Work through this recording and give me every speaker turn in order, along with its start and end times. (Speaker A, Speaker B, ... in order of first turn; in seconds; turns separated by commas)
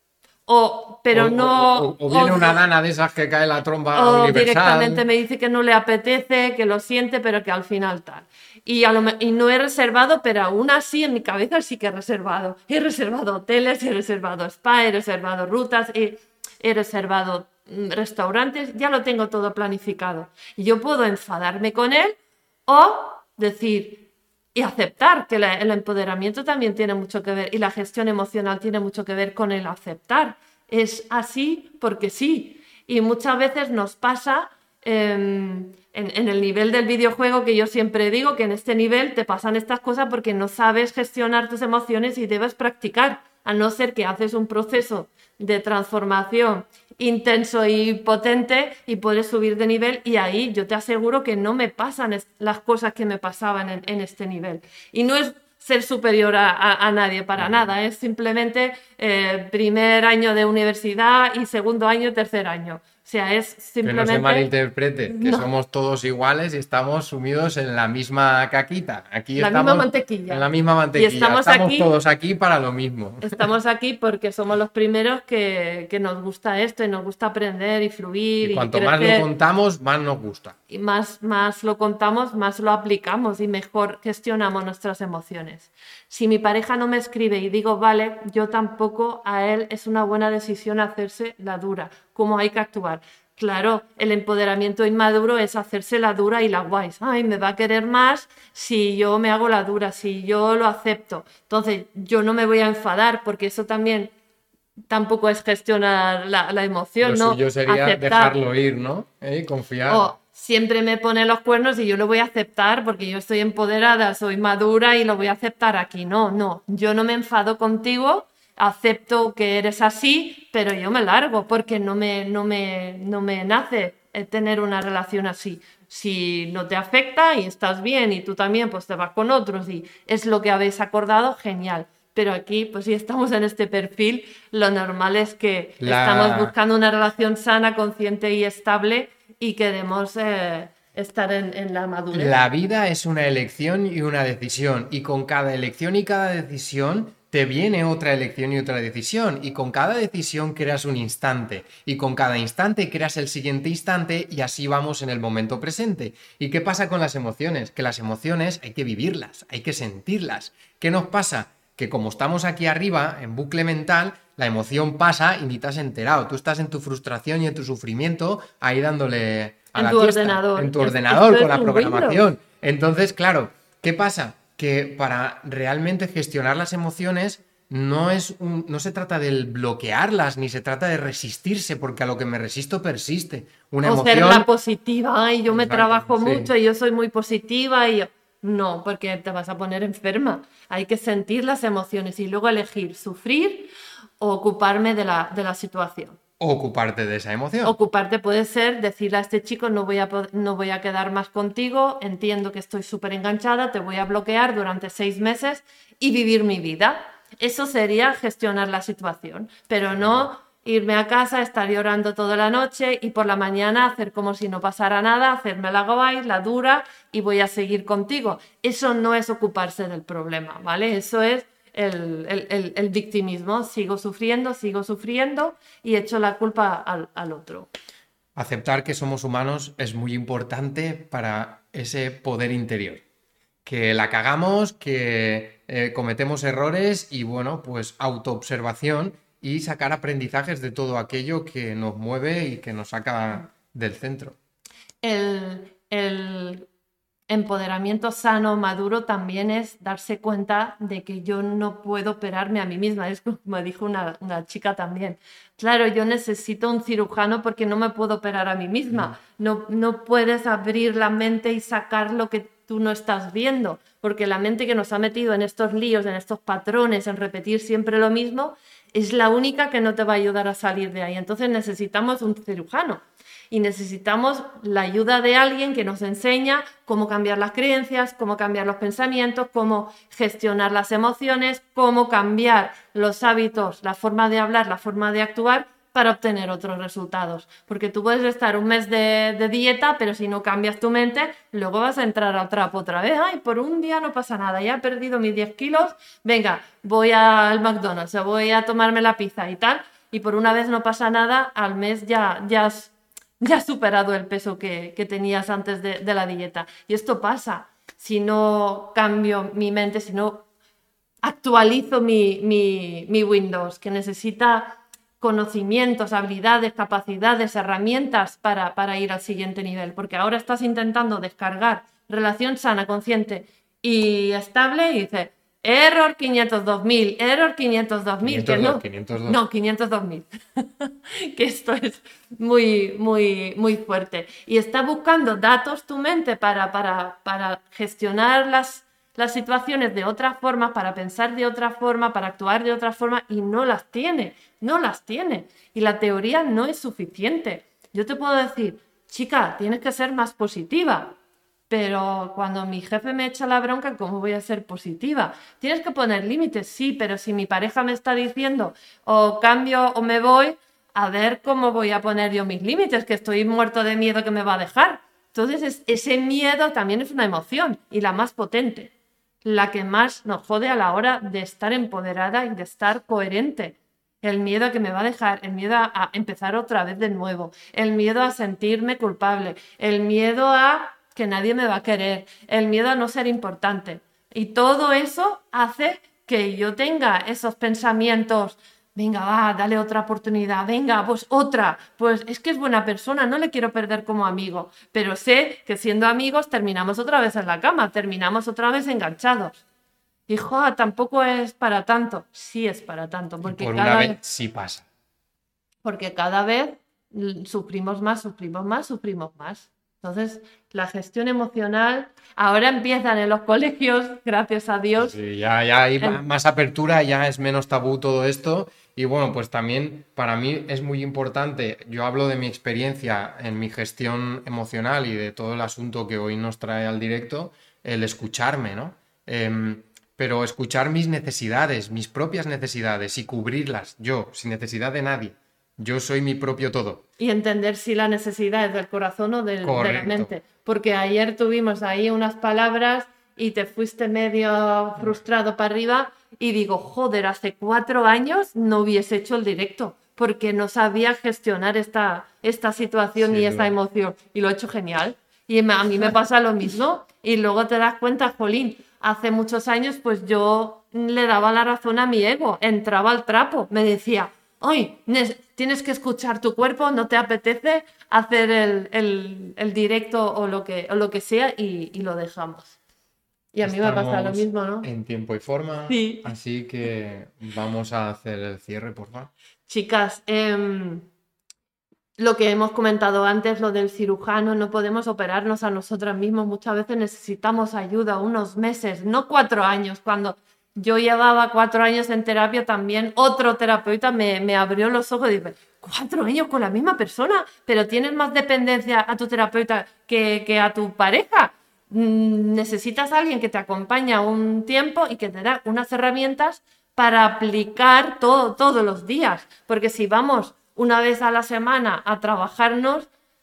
Speaker A: 0.5-2.6, Speaker B: 1.1-5.0, Speaker A: 3.9-64.5, Speaker B: 57.4-57.6, Speaker B: 63.8-73.4, Speaker A: 65.1-65.5, Speaker A: 69.4-71.9, Speaker A: 73.2-79.3, Speaker B: 78.4-80.5, Speaker A: 80.7-104.1, Speaker A: 104.9-108.4, Speaker B: 107.0-110.1, Speaker A: 109.9-142.3, Speaker B: 135.8-136.5, Speaker B: 142.1-184.5, Speaker A: 169.8-172.2, Speaker A: 183.8-196.2, Speaker B: 185.5-186.5, Speaker B: 196.4-197.8, Speaker A: 197.6-227.7, Speaker B: 209.9-210.3, Speaker B: 228.4-233.0, Speaker B: 233.7-244.4, Speaker A: 245.0-246.7, Speaker A: 247.3-310.5, Speaker A: 311.2-351.2, Speaker B: 328.2-329.4, Speaker A: 351.7-368.9, Speaker A: 369.4-399.6, Speaker A: 400.3-404.2, Speaker B: 403.4-404.9, Speaker A: 405.8-415.2, Speaker B: 415.0-437.0, Speaker A: 437.2-472.8, Speaker B: 439.6-440.3, Speaker B: 453.2-453.7, Speaker A: 473.5-474.9, Speaker B: 473.6-479.3, Speaker A: 475.9-476.2, Speaker A: 479.7-481.1, Speaker A: 482.2-513.1